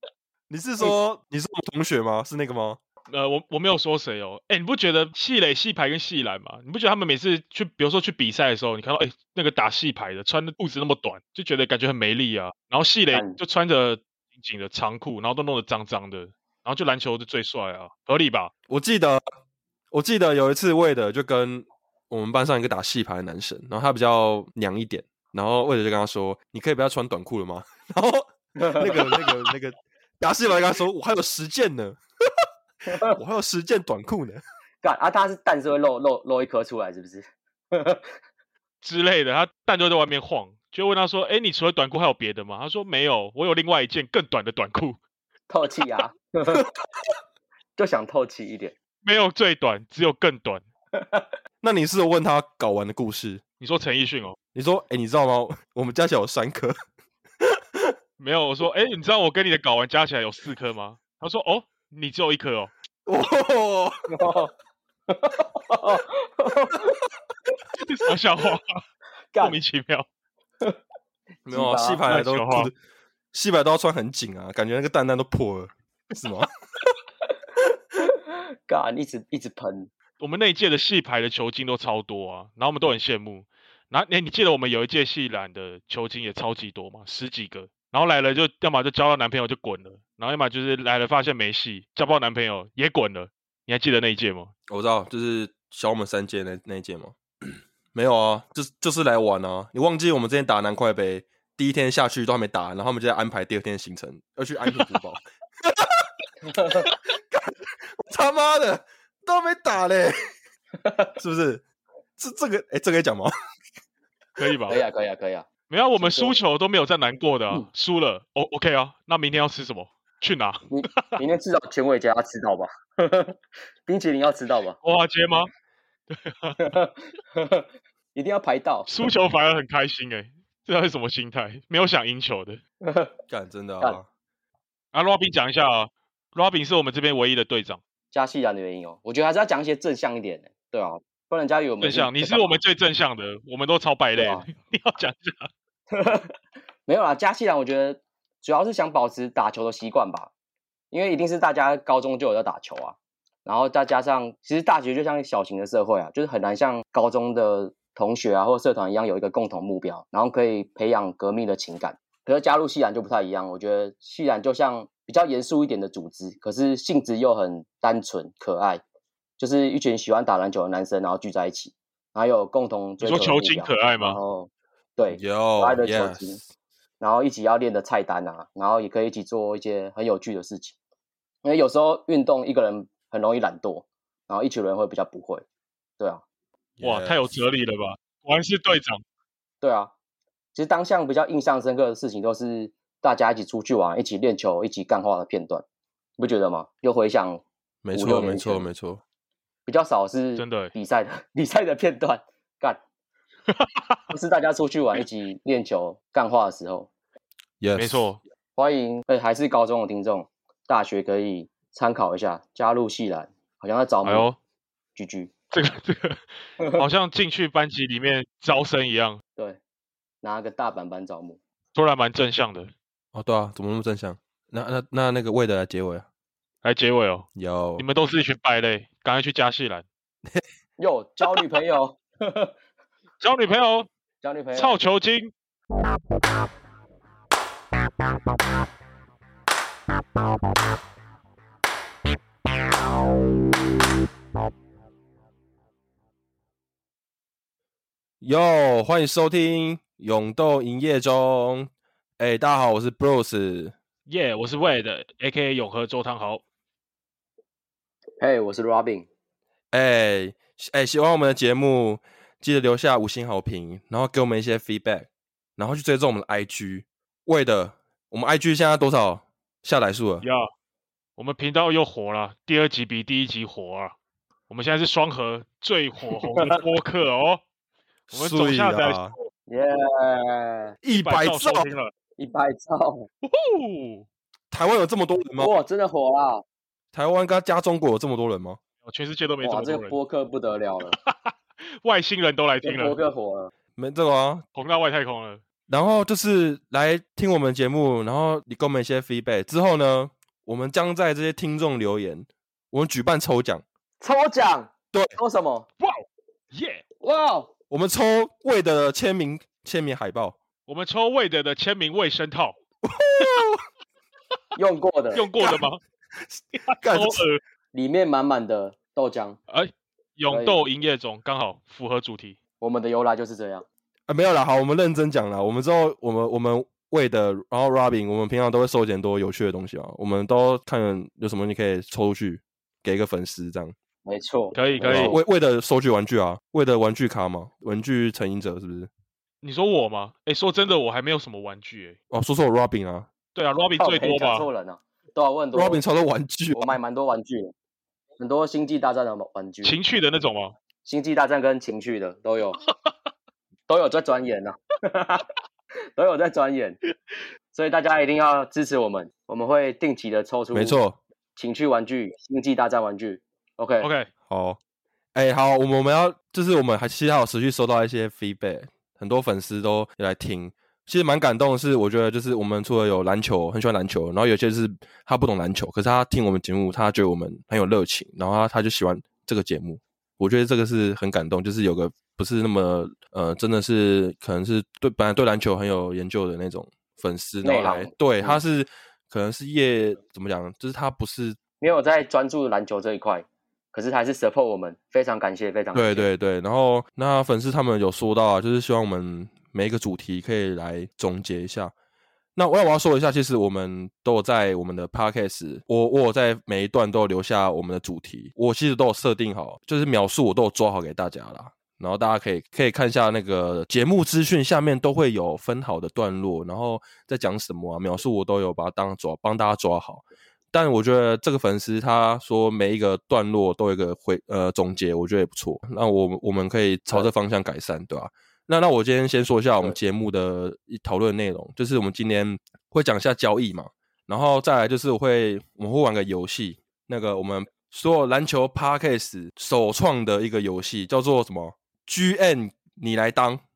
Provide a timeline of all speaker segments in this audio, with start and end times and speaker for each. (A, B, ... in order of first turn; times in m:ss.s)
0:00.5-0:02.8 A
0:03.1-0:18.5 B
0:13.1-0:13.4 C
0:18.7-0:19.2 A
0:19.9-0:32.0 A
0:28.6-0:29.3 C
0:32.8-0:33.2 C
0:32.9-0:34.4 A
0:34.8-0:38.1 C
0:38.8-0:45.0 B
0:45.5-0:46.7 C
0:47.8-0:48.7 C
0:49.0-0:50.6 B
0:50.9-0:51.3 C
0:51.6-0:53.4 A
0:53.6-0:54.4 B
0:54.5-0:56.8 A
0:57.4-0:57.9 A
0:58.2-1:02.7 B
1:03.0-1:04.0 A
1:04.1-1:04.5 C
1:05.1-1:07.0 C
1:07.8-1:08.8 B
1:09.3-1:09.6 C
1:09.4-1:10.1 B
1:11.4-1:12.7 A
1:11.5-1:12.0 C
1:12.0-1:12.7 B
1:13.3-1:16.5 A
1:18.0-1:19.9 C
1:20.2-1:34.5 B
1:34.7-1:46.0 A
1:46.5-1:46.9 C
1:47.3-1:50.2 A
1:50.8-1:51.1 C
1:51.2-1:51.6 A
1:52.2-1:53.3 A
1:54.4-1:54.8 B
1:54.7-1:56.4 C
1:55.7-2:01.2 B
2:00.7-2:04.8 C
2:04.8-2:05.5 B
2:06.1-2:06.6 B
2:06.6-2:08.9 C
2:08.9-2:12.6 B
2:12.8-2:13.1 C
2:13.3-2:14.1 A
2:14.9-2:17.8 B
2:18.1-2:22.6 C
2:21.8-2:25.5 B
2:24.2-2:24.4 C
2:25.9-2:26.3 C
2:26.8-2:30.3 C
2:30.9-2:48.8 C
2:49.4-2:56.4 C
2:53.0-2:54.2 B
2:55.1-2:56.4 A
2:57.0-3:00.8 C
3:01.4-3:05.4 C
3:06.8-3:07.3 A
3:06.8-3:09.0 B
3:09.6-3:09.9 C
3:10.5-3:15.6 C
3:16.2-3:18.7 C
3:17.8-3:19.0 A
3:19.6-3:22.8 C
3:20.4-3:20.7 B
3:23.5-3:24.0 B
3:24.1-3:26.9 C
3:27.6-3:28.1 A
3:27.8-3:28.2 B
3:28.6-3:34.3 C
3:34.0-3:34.4 B
3:35.0-3:35.3 C
3:35.5-3:36.2 B
3:36.7-3:39.2 B
3:40.2-3:41.4 C
3:41.7-3:42.7 B
3:43.1-3:46.0 A
3:46.6-3:47.3 B
3:47.3-3:47.8 A
3:47.8-3:49.8 B
3:50.8-3:52.5 C
3:53.2-3:53.9 B
3:54.2-3:54.8 C
3:54.5-3:55.3 B
4:08.2-4:13.7 A
4:14.1-4:16.4 B
4:18.2-4:19.1 C
4:19.7-4:30.2 A
4:30.2-4:30.5 B
4:31.2-4:33.9 B
4:34.5-4:37.4 B
4:38.1-4:39.1 A
4:38.1-4:39.2 B
4:39.5-4:40.8 C
4:40.8-4:41.7 A
4:40.9-4:41.9 B
4:42.2-4:43.1 C
4:43.2-4:44.1 B
4:44.5-4:45.5 A
4:45.4-4:46.4 C
4:46.9-4:48.6 A
4:48.8-4:50.0 B
4:49.4-4:51.0 C
4:50.9-4:53.0 B
4:52.6-4:53.5 C
4:53.8-4:54.4 A
4:54.5-4:55.4 B
4:55.7-5:03.6 A
5:04.0-5:05.7 C
5:05.8-5:06.8 B
5:07.0-5:07.5 C
5:07.7-5:10.4 A
5:10.7-5:12.6 B
5:12.8-5:13.6 A
5:14.6-5:15.3 C
5:15.1-5:15.8 B
5:16.3-5:17.2 A
5:16.6-5:17.4 B
5:17.7-5:19.4 C
5:19.5-5:22.4 B
5:20.3-5:20.6 C
5:22.6-5:23.6 C
5:24.1-5:33.7 A
5:34.0-5:35.2 C
5:34.5-5:35.2 B
5:34.9-5:38.9 A
5:39.4-5:42.0 B
5:42.1-5:43.1 A
5:43.3-5:44.5 B
5:43.8-5:45.8 C
5:45.5-5:46.8 A
5:46.5-5:47.5 C
5:48.2-5:49.8 C
5:49.6-5:50.5 B
5:50.8-5:52.6 C
5:53.7-5:55.3 C
5:55.9-5:56.8 C
5:57.5-6:00.8 C
6:00.5-6:01.0 A
6:01.4-6:03.9 C
6:03.8-6:04.1 B
6:04.3-6:04.6 A
6:05.1-6:31.4 A
6:27.4-6:28.4 C
6:31.6-6:36.1 C
6:35.7-6:41.7 A
6:42.4-7:23.4 A